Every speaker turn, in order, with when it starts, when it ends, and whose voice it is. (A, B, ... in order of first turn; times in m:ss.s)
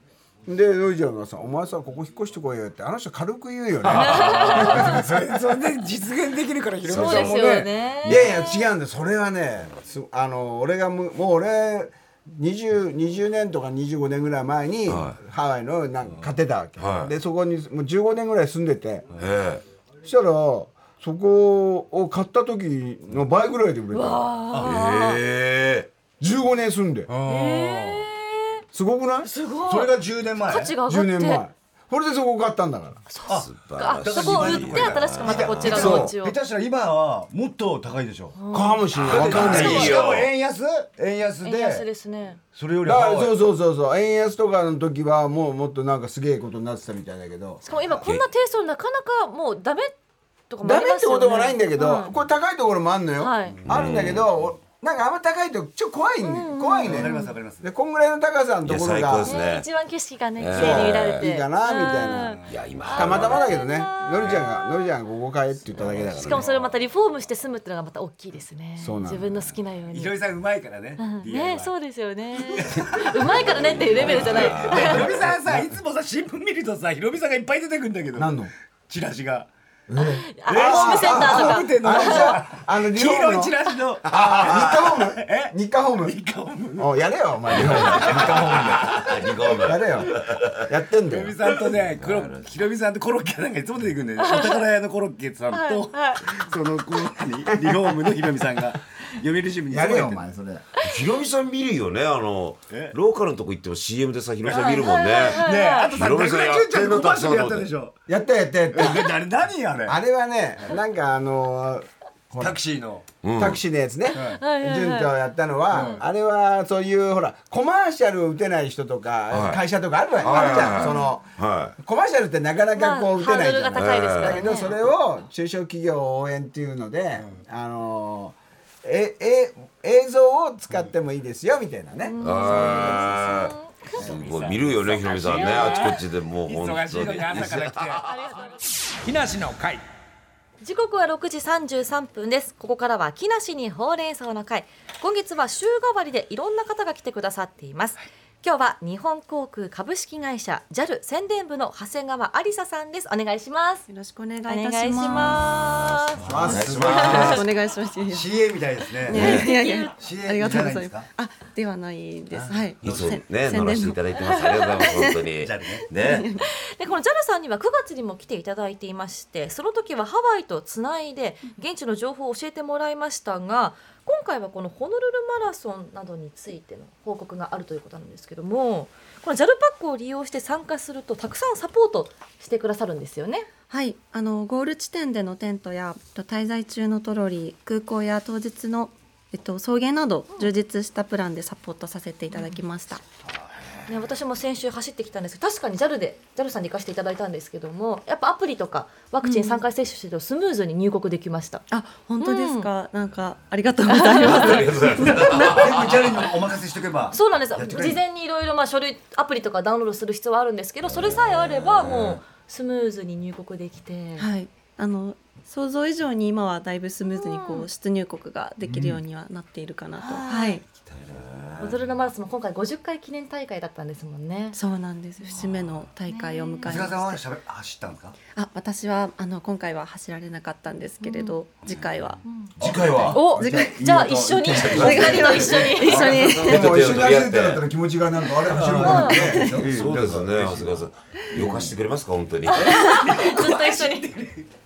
0:00.4-0:05.4 A
0:03.8-0:05.0 B
0:04.0-0:05.0 C
0:04.4-0:07.7 D
0:06.8-0:07.4 B
0:06.8-0:08.6 C
0:08.0-0:19.1 A
0:14.9-0:15.2 B
0:16.8-0:17.1 B
0:19.2-0:19.6 B
0:20.0-0:24.3 A
0:23.9-0:25.2 C
0:24.5-0:24.8 D
0:24.6-0:25.9 B
0:26.2-0:27.1 A
0:27.1-0:28.0 D
0:27.2-0:28.6 C
0:28.7-0:29.3 A
0:29.2-0:31.4 C
0:29.6-0:30.8 D
0:30.8-0:33.0 A
0:33.1-0:36.4 C
0:33.3-0:38.4 D
0:33.3-0:36.0 B
0:35.6-0:36.1 A
0:38.4-0:40.1 C
0:38.5-0:40.0 A
0:38.9-0:40.3 B
0:39.0-0:41.8 D
0:41.4-0:42.4 C
0:42.5-0:43.3 D
0:42.8-0:47.6 A
0:47.6-0:49.9 C
0:47.7-0:48.3 B
0:50.5-0:52.1 C
0:50.6-0:59.4 A
0:53.2-0:53.6 C
0:53.7-0:54.3 B
0:56.2-0:57.4 C
0:56.8-0:57.7 D
0:58.6-0:59.7 B
0:59.2-1:04.9 C
1:00.4-1:01.2 B
1:00.5-1:06.4 A
1:02.1-1:02.5 D
1:02.5-1:03.6 B
1:04.2-1:04.4 B
1:05.7-1:06.6 B
1:06.1-1:10.2 C
1:08.8-1:09.3 A
1:09.9-1:11.7 D
1:11.0-1:15.1 C
1:12.4-1:18.3 D
1:13.4-1:15.3 B
1:15.2-1:15.7 A
1:18.1-1:18.5 A
1:18.9-1:19.5 D
1:19.9-1:26.2 A
1:20.3-1:22.4 C
1:20.5-1:26.9 D
1:24.1-1:24.7 B
1:26.8-1:29.0 A
1:27.5-1:29.1 D
1:27.6-1:30.7 B
1:29.6-1:31.4 A
1:31.1-1:40.2 D
1:31.5-1:32.5 B
1:34.2-1:34.6 C
1:35.5-1:36.2 C
1:39.7-1:40.6 A
1:40.8-1:47.7 B
1:42.7-1:43.0 D
1:44.4-1:47.9 D
1:44.5-1:45.9 C
1:48.1-1:49.1 A
1:48.7-1:50.0 D
1:49.8-1:52.6 A
1:52.4-1:53.0 D
1:53.2-1:53.6 B
1:53.4-2:12.2 A
1:54.1-1:55.1 C
1:54.1-1:54.4 D
1:55.7-1:56.0 D
1:55.7-1:56.0 C
1:59.3-1:59.6 B
2:00.2-2:01.8 B
2:00.3-2:01.1 C
2:02.7-2:04.7 C
2:03.8-2:04.4 B
2:12.0-2:14.1 C
2:12.2-2:18.1 B
2:12.6-2:13.3 D
2:14.0-2:18.0 D
2:15.3-2:15.9 C
2:18.1-2:18.6 C
2:19.0-2:19.8 D
2:20.6-2:33.9 C
2:33.9-2:35.6 E
2:34.5-2:36.2 C
2:35.6-2:37.5 B
2:36.2-2:37.4 D
2:36.2-2:37.2 A
2:36.8-2:38.5 E
2:36.9-2:37.4 C
2:38.1-2:39.4 D
2:39.0-2:44.1 E
2:39.1-2:40.0 C
2:39.1-2:39.5 B
2:39.9-2:41.1 D
2:42.3-2:43.1 D
2:42.8-2:46.3 B
2:44.2-2:44.8 C
2:44.8-2:45.2 E
2:45.4-2:45.9 D
2:45.9-2:46.4 E
2:46.4-3:03.5 C
3:03.7-3:13.0 E
3:12.3-3:12.6 C
3:13.9-3:21.6 C
3:19.2-3:19.6 E
3:21.7-3:25.7 E
3:22.2-3:22.7 C
3:23.9-3:24.6 C
3:24.2-3:26.2 B
3:25.0-3:28.0 D
3:27.1-3:34.3 C
3:30.9-3:32.2 B
3:34.2-3:40.6 E
3:37.1-3:37.7 C
3:38.6-3:39.0 D
3:40.0-3:40.6 C
3:40.8-3:41.8 B
3:41.6-3:44.6 C
3:44.5-3:47.2 E
3:45.2-3:45.5 C
3:46.0-3:46.9 C
3:46.6-3:48.2 D
3:48.3-3:52.2 E
3:51.0-3:51.4 C
3:52.2-3:52.5 C
3:52.6-3:53.3 B
3:52.6-3:56.2 D
3:53.1-3:56.2 C
3:53.2-3:53.8 E
3:54.5-3:57.6 B
3:54.6-3:56.8 E
3:56.4-3:59.9 A
3:58.4-4:01.7 D
3:58.8-3:59.2 C
3:59.1-4:02.8 B
3:59.1-3:59.6 E
4:02.5-4:04.1 C
4:02.7-4:04.5 D